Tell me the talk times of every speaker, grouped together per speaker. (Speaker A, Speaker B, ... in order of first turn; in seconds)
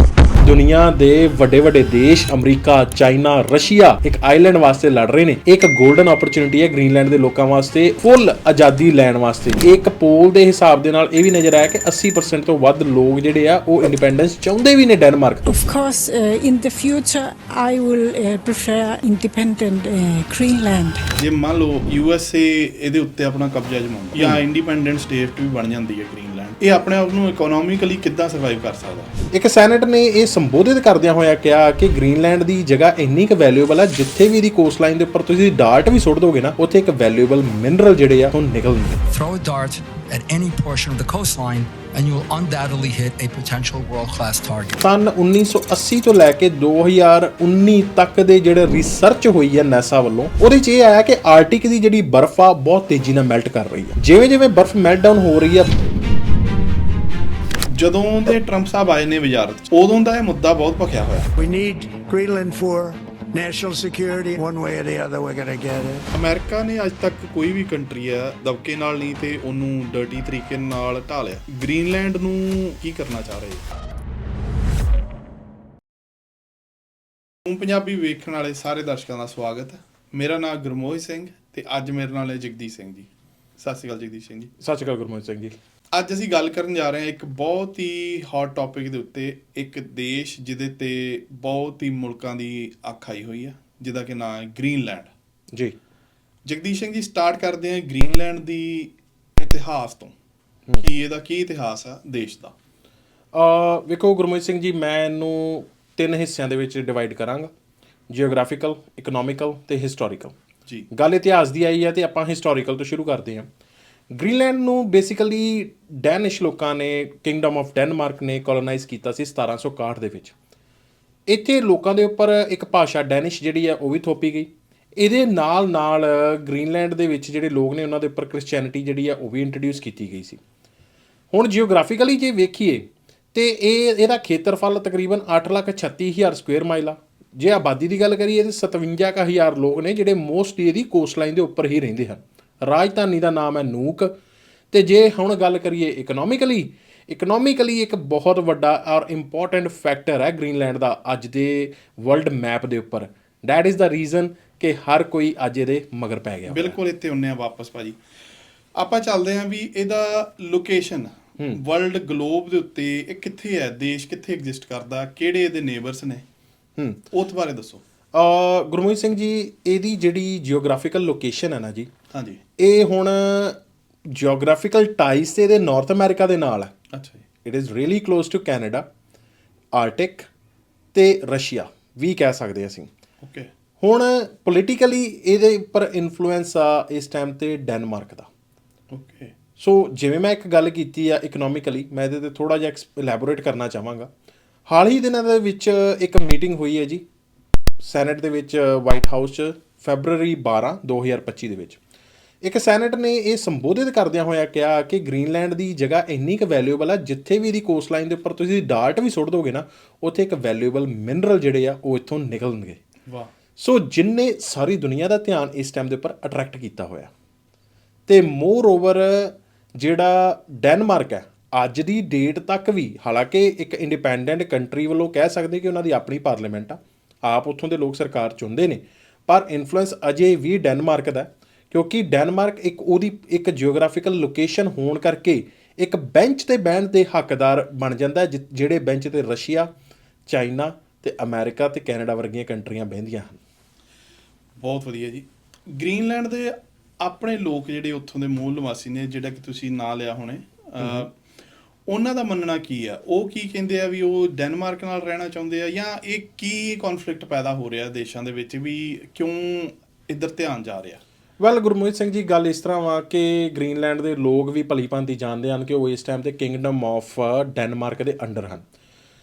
Speaker A: 0.4-15.5, 29.3-39.0, 44.8-55.7, 84.6-85.5, 103.3-107.5, 108.1-110.3, 110.9-113.5, 114.1-120.3, 121.3-130.4, 131.3-144.1, 144.7-156.8, 166.8-167.0, 168.1-171.9, 172.6-173.6, 174.1-176.7, 177.4-178.8, 179.7-180.3, 180.9-182.9, 183.8-188.3, 189.6-194.1, 194.7-197.0, 197.8-201.8, 202.4-212.8, 213.6-217.1, 218.1-239.7, 240.3-243.4, 261.4-268.6
Speaker B: 15.5-21.0
Speaker C: 21.2-29.1, 57.7-61.3, 66.1-73.7, 77.4-84.5, 85.9-95.1, 96.5-100.1, 100.8-102.5, 156.5-158.0, 158.8-166.2, 167.1-167.8, 172.1-172.4, 176.9-177.2, 183.2-183.5, 188.9-189.3, 244.6-251.1, 251.9-261.0
Speaker D: 39.1-44.7
Speaker E: 61.4-66.0